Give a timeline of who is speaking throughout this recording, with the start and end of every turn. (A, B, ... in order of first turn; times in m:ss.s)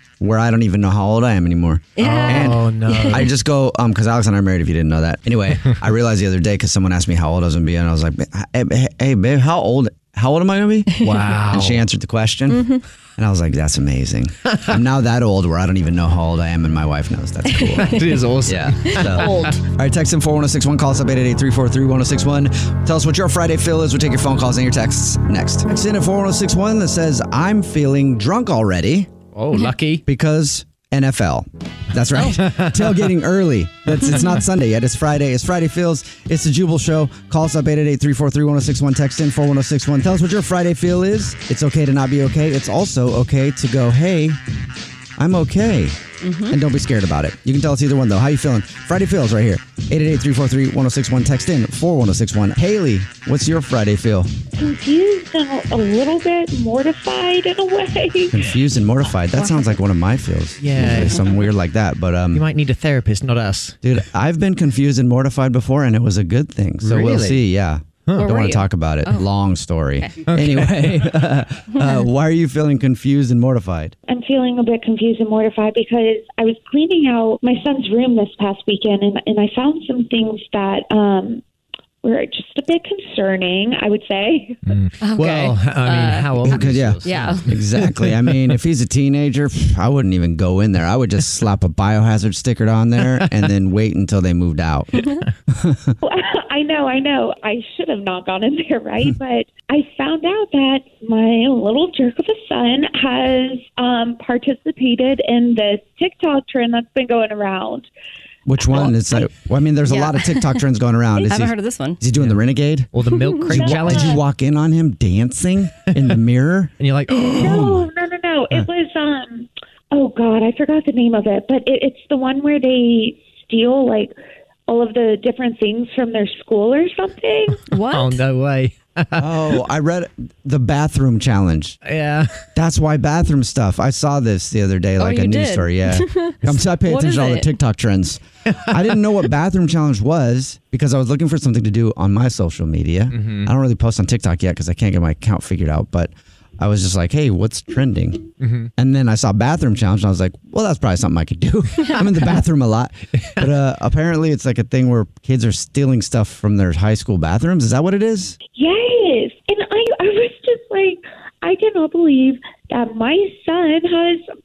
0:00.2-0:29.1 A
0:02.0-0:03.2 B
0:02.0-0:03.3 C
0:11.0-0:11.8 C
0:12.5-0:12.8 B
0:17.5-0:18.2 B
0:17.8-0:19.6 C
0:18.9-0:19.6 B
0:29.3-0:30.0 C
0:30.1-0:44.4 A
0:32.3-0:32.8 C
0:45.2-0:54.3 A
0:46.2-0:46.6 B
0:54.5-0:58.3 D
0:58.3-1:02.4 A
0:59.3-0:59.8 B
1:00.6-1:01.3 C
1:02.3-1:03.8 C
1:03.8-1:14.0 A
1:06.8-1:07.4 C
1:08.2-1:09.3 B
1:10.3-1:10.9 C
1:14.1-1:21.4 D
1:22.0-1:24.6 D
1:24.7-1:28.2 C
1:25.0-1:27.4 B
1:26.4-1:35.9 A
1:36.0-1:47.9 D
1:48.5-1:52.9 A
1:49.9-1:50.6 B
1:51.2-1:52.0 B
1:52.9-1:54.2 C
1:53.2-1:53.5 B
1:53.5-1:56.7 A
1:53.7-1:54.2 D
1:56.8-1:57.8 C
1:57.3-2:04.2 D
1:57.4-1:57.8 A
2:04.7-2:07.6 D
2:07.7-2:08.2 B
2:07.9-2:09.3 C
2:09.2-2:11.8 A
2:11.8-2:12.4 C
2:12.6-2:38.4 A
2:15.0-2:17.5 B
2:23.1-2:23.5 C
2:28.4-2:28.7 C
2:38.6-2:44.3 D